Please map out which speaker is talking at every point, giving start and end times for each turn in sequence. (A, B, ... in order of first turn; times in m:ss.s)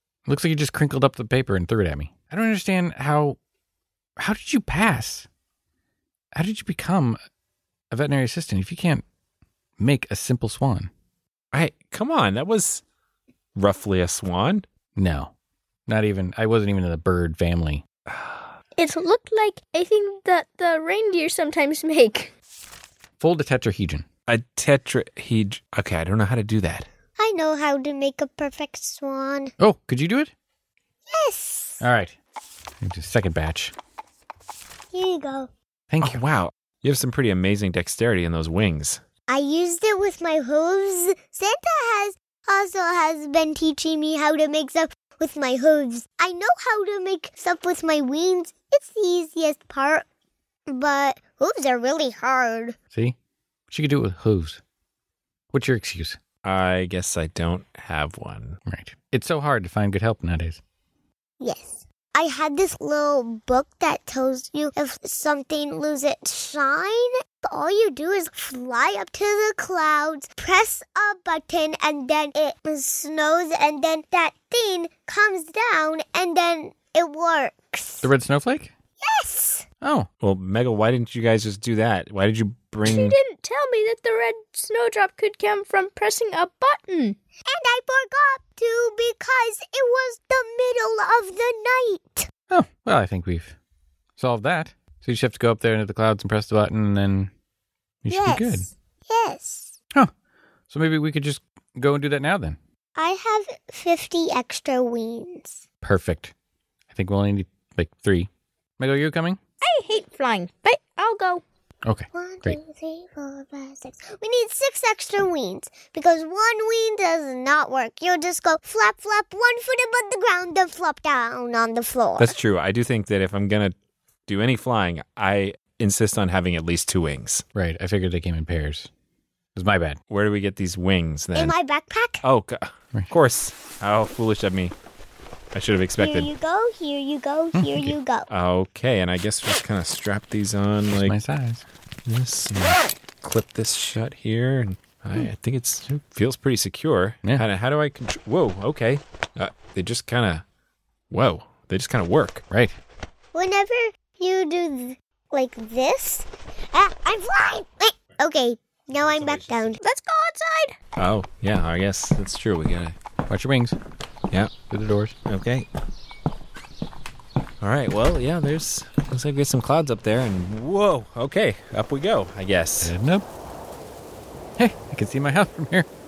0:00.3-0:03.4 A
0:04.2-0:05.3 A
0:06.3-0:07.2 A
0:07.9-0:09.0 A
0:09.8-0:10.9 A
0:11.5-0:12.8 B
0:13.6-0:14.6 B
0:15.0-0:15.3 A
0:15.9-0:17.8 A
0:18.1-0:18.4 B
0:18.8-0:22.3 C
0:23.2-0:24.0 A
0:24.3-0:26.8 B
0:27.2-0:29.5 D
0:29.6-0:30.3 A
0:31.1-0:31.8 D
0:31.8-0:32.2 A
0:32.8-0:33.7 A
0:34.9-0:35.5 D
0:35.9-0:36.2 A
0:36.0-0:39.0 B
0:39.3-0:50.0 D
0:50.7-0:52.8 D
0:53.7-0:54.6 A
0:55.5-0:56.2 A
0:56.4-0:58.6 B
0:58.7-1:00.6 A
1:01.4-1:18.1 D
1:18.0-1:18.7 A
1:19.0-1:19.6 D
1:19.8-1:20.1 A
1:20.2-1:23.2 B
1:22.8-1:27.2 C
1:27.5-1:32.3 D
1:32.5-1:33.6 A
1:34.2-1:37.3 A
1:38.0-1:38.7 A
1:38.1-1:39.7 D
1:40.7-1:42.6 A
1:43.0-1:45.6 D
1:45.8-1:46.3 A
1:46.9-1:49.4 A
1:49.6-1:51.4 C
1:51.8-1:52.6 A
1:52.1-2:02.4 D
2:02.2-2:03.7 B
2:04.3-2:07.4 B
2:07.5-2:08.9 A
2:09.5-2:10.0 A
2:10.1-2:11.6 B
2:11.3-2:12.2 D
2:12.2-2:14.7 B
2:15.5-2:16.3 B
2:16.0-2:18.3 D
2:17.5-2:17.9 A
2:18.3-2:21.1 B
2:20.9-2:21.6 A
2:22.0-2:30.4 B
2:31.1-2:32.4 B
2:32.5-2:32.8 A
2:33.3-2:39.8 D
2:39.0-2:39.7 B
2:39.8-2:40.8 C
2:41.0-2:43.0 B
2:43.3-2:43.8 A
2:44.7-2:45.1 A
2:45.2-2:45.7 B
2:47.6-2:52.9 B
2:52.8-2:53.2 A
2:54.6-2:55.9 A